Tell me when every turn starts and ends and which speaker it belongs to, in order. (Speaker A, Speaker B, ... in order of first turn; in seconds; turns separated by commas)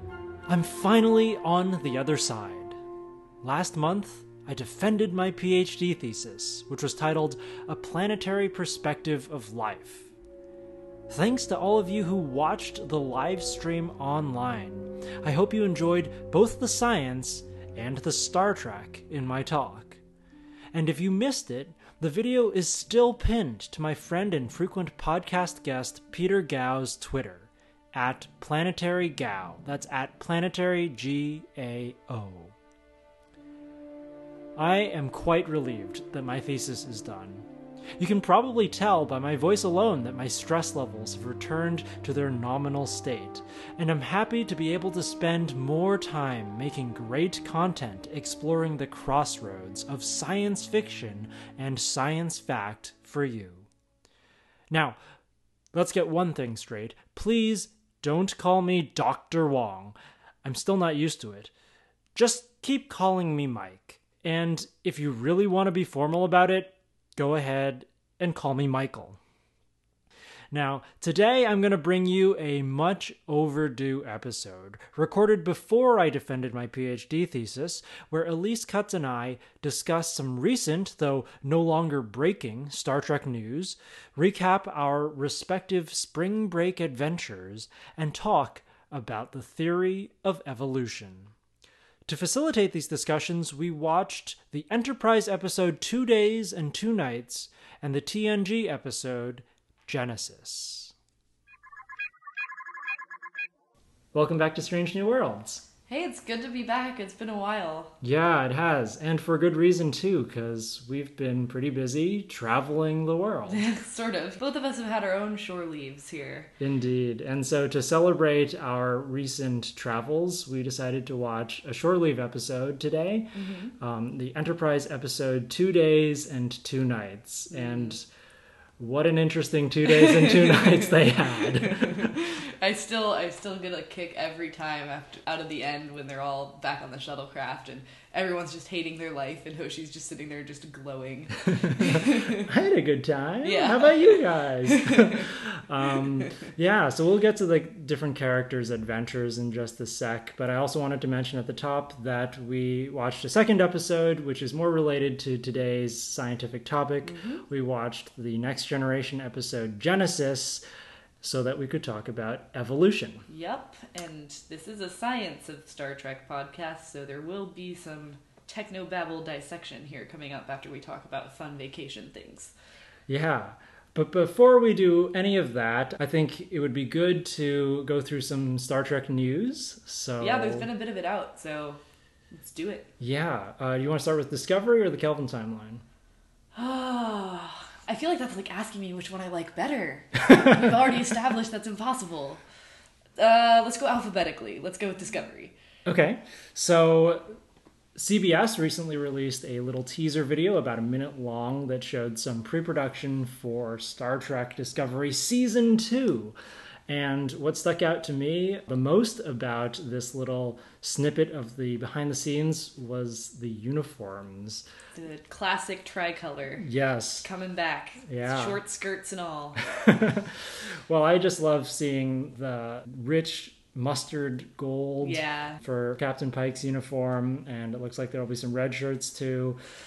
Speaker A: 0.5-2.8, Speaker A: 3.4-10.1, Speaker A: 11.1-20.0, Speaker A: 20.7-32.5, Speaker A: 34.6-37.5, Speaker A: 38.0-53.7, Speaker A: 54.7-55.0, Speaker A: 55.7-61.5, Speaker A: 62.1-69.2, Speaker A: 70.5-91.3, Speaker A: 92.1-100.9, Speaker A: 104.1-105.7, Speaker B: 105.9-108.0, Speaker A: 108.0-113.7, Speaker B: 113.5-116.5, Speaker A: 116.6-128.1, Speaker B: 123.3-123.7, Speaker B: 127.5-127.9, Speaker A: 128.8-132.1, Speaker B: 129.9-142.5, Speaker A: 141.6-160.6, Speaker B: 143.4-145.3, Speaker B: 157.0-157.4, Speaker A: 161.2-163.3, Speaker B: 163.3-172.5, Speaker A: 173.1-180.7, Speaker B: 180.2-181.8, Speaker B: 182.3-182.9, Speaker A: 183.0-185.8, Speaker B: 186.6-192.4, Speaker B: 193.2-195.5, Speaker A: 195.9-197.4, Speaker A: 198.0-206.3, Speaker A: 206.9-214.7, Speaker B: 215.0-216.7, Speaker A: 216.6-217.3, Speaker B: 217.2-219.6, Speaker A: 218.1-218.6, Speaker A: 219.6-229.6, Speaker B: 225.0-225.6